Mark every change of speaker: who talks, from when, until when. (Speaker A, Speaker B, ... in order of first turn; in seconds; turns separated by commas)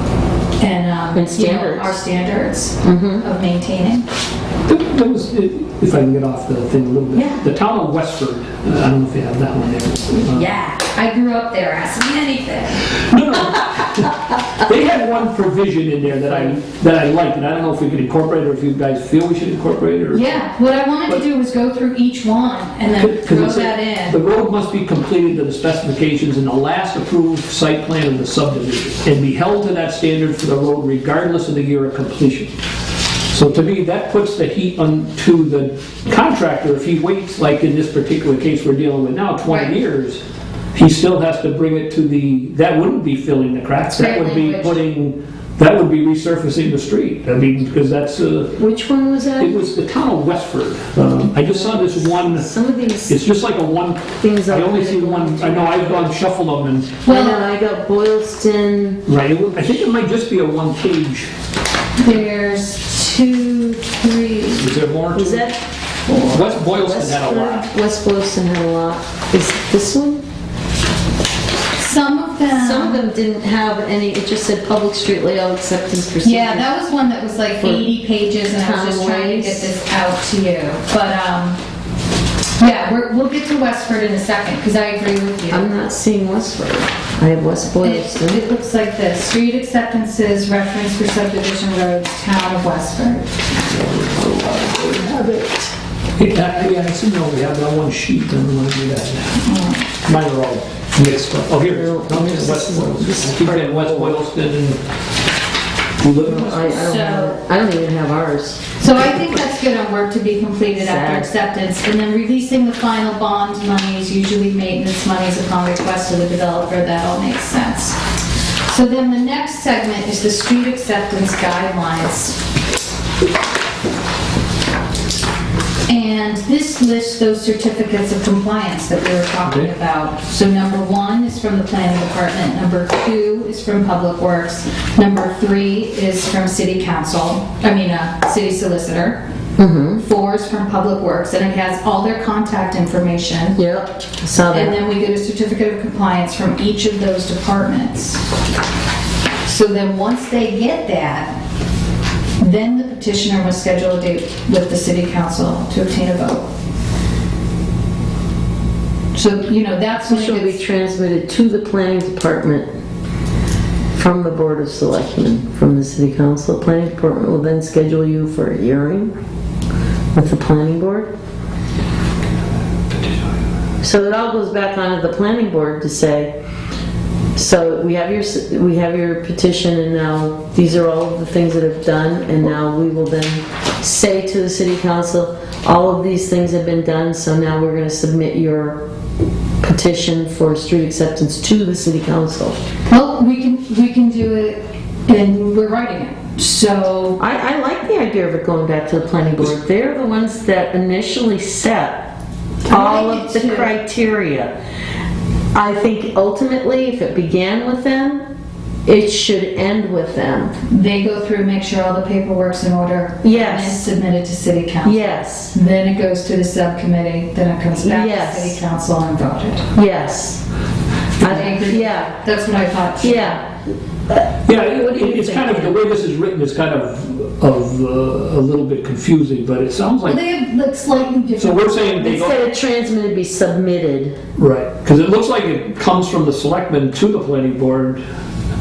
Speaker A: 0.6-4.0, Speaker B: 1.1-2.0, Speaker B: 2.8-3.2, Speaker C: 4.7-10.5, Speaker B: 7.1-7.4, Speaker A: 10.2-13.0, Speaker C: 12.9-20.4, Speaker A: 20.1-24.2, Speaker C: 23.0-32.5, Speaker C: 33.3-40.2, Speaker A: 39.5-39.8, Speaker C: 40.7-48.5, Speaker A: 44.0-44.7, Speaker B: 48.5-49.6, Speaker C: 49.4-52.5, Speaker B: 51.4-53.2, Speaker C: 53.1-57.0, Speaker B: 54.2-56.1, Speaker A: 57.0-57.5, Speaker B: 57.1-59.0, Speaker C: 59.1-61.3, Speaker A: 62.0-64.8, Speaker C: 64.5-65.5, Speaker B: 65.1-70.2, Speaker C: 66.3-67.7, Speaker A: 71.8-73.0, Speaker B: 72.5-76.7, Speaker A: 76.2-81.6, Speaker B: 77.6-77.9, Speaker B: 78.6-79.7, Speaker A: 82.6-85.8, Speaker B: 85.5-88.4, Speaker A: 87.8-93.4, Speaker B: 93.7-95.7, Speaker C: 96.2-99.4, Speaker A: 99.4-99.9, Speaker C: 100.0-104.8, Speaker B: 101.7-104.2, Speaker C: 106.0-107.0, Speaker B: 106.2-108.7, Speaker A: 106.6-107.4, Speaker A: 108.8-118.0, Speaker B: 110.8-111.3, Speaker A: 118.7-122.4, Speaker A: 125.9-139.2, Speaker C: 129.4-129.7, Speaker B: 139.6-140.0, Speaker A: 140.0-143.6, Speaker B: 143.6-144.8, Speaker A: 144.5-148.2, Speaker A: 149.4-151.4, Speaker A: 152.4-156.5, Speaker A: 159.1-160.6, Speaker B: 160.1-162.7, Speaker B: 163.9-169.2, Speaker B: 170.1-171.1, Speaker B: 173.8-176.3, Speaker B: 177.3-188.8, Speaker B: 189.6-192.6, Speaker A: 192.9-197.2, Speaker B: 197.2-202.1, Speaker B: 202.7-204.5, Speaker A: 202.7-203.7, Speaker B: 205.5-208.2, Speaker B: 208.9-210.5, Speaker A: 210.7-219.7, Speaker B: 213.2-213.8, Speaker B: 214.8-215.5, Speaker B: 217.8-218.6, Speaker B: 219.8-220.4, Speaker B: 221.2-222.1, Speaker A: 221.2-223.4, Speaker B: 223.0-223.4, Speaker B: 224.1-225.8, Speaker C: 224.5-230.2, Speaker A: 230.0-232.2, Speaker C: 231.4-232.4, Speaker B: 232.0-234.2, Speaker C: 234.4-238.0